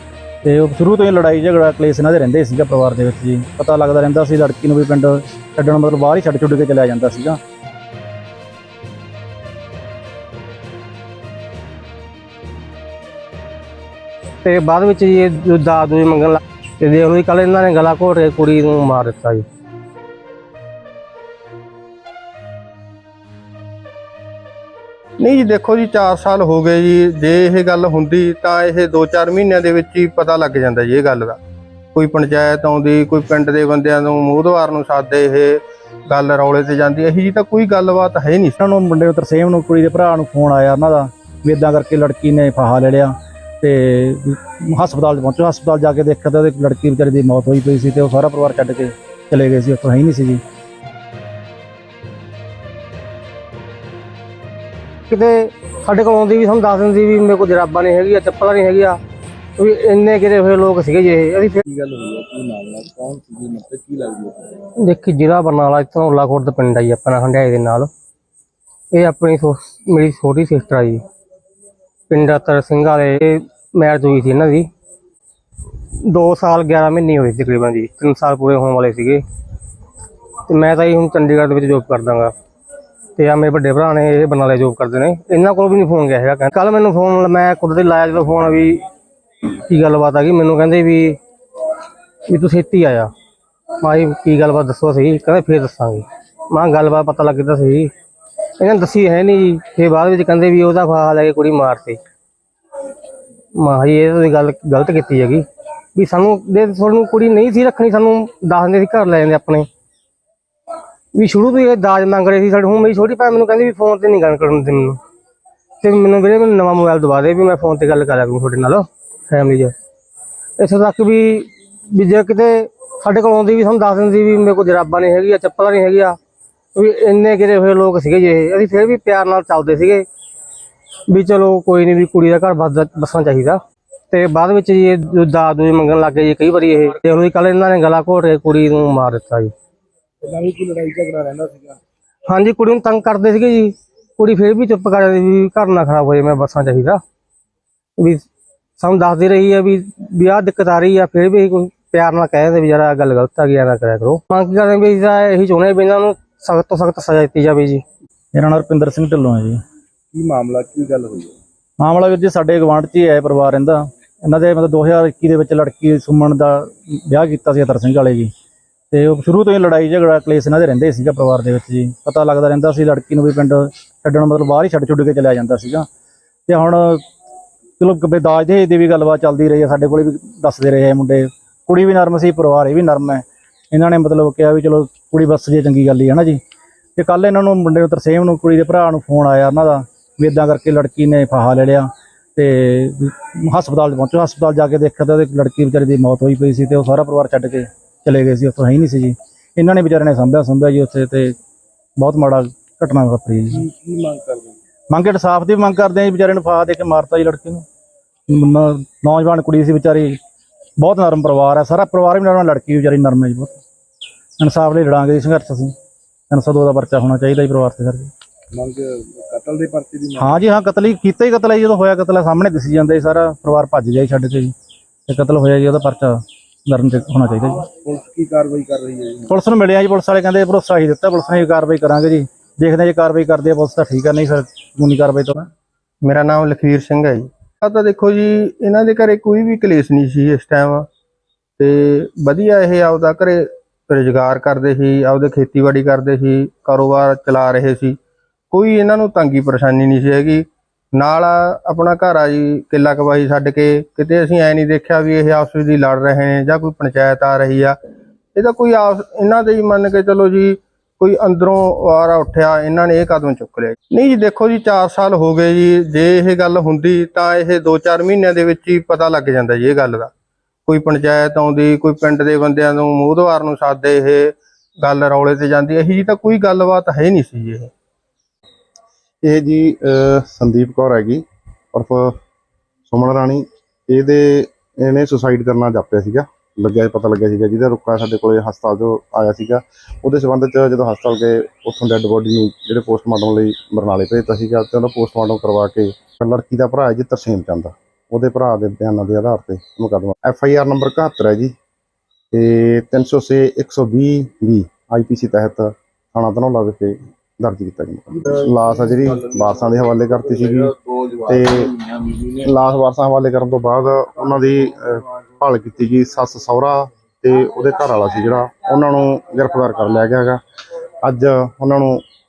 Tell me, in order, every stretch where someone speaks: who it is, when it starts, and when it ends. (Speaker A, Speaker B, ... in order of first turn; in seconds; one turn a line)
Speaker A: 0.4-7.4
Speaker B: 14.4-19.4
Speaker C: 25.2-31.4
Speaker C: 31.9-38.6
Speaker A: 38.6-50.4
Speaker B: 55.1-59.0
Speaker B: 59.6-61.6
Speaker D: 61.7-64.6
Speaker B: 64.7-67.9
Speaker B: 68.9-71.0
Speaker B: 72.1-74.7
Speaker B: 76.0-79.2
Speaker B: 80.5-82.3
Speaker B: 83.2-88.8
Speaker B: 89.7-91.2
Speaker B: 92.3-93.1
Speaker B: 93.8-97.9
Speaker B: 98.6-102.0
Speaker B: 103.5-109.7
Speaker B: 111.1-115.0
Speaker B: 115.8-119.7
Speaker B: 120.6-126.2
Speaker B: 126.7-130.0
Speaker B: 131.1-139.5
Speaker D: 140.2-141.8
Speaker B: 142.2-147.0
Speaker B: 148.0-148.2
Speaker B: 148.8-157.8
Speaker A: 158.3-159.6
Speaker D: 160.1-161.4
Speaker A: 161.8-168.3
Speaker A: 168.9-175.9
Speaker A: 176.5-177.0
Speaker A: 177.8-186.4
Speaker A: 187.0-201.3
Speaker A: 202.0-203.6
Speaker D: 203.5-204.6
Speaker A: 204.9-207.6
Speaker A: 208.3-210.2
Speaker A: 210.8-213.6
Speaker A: 214.4-215.7
Speaker A: 216.3-218.1
Speaker D: 218.5-220.4
Speaker A: 220.2-224.5
Speaker A: 225.1-227.7
Speaker D: 227.8-229.3
Speaker A: 229.3-235.5
Speaker C: 236.0-240.9
Speaker C: 241.6-248.0
Speaker C: 248.5-257.8
Speaker C: 258.3-270.1
Speaker C: 270.6-277.7
Speaker E: 279.2-282.2
Speaker E: 282.9-301.5
Speaker E: 302.3-320.4
Speaker E: 321.0-322.0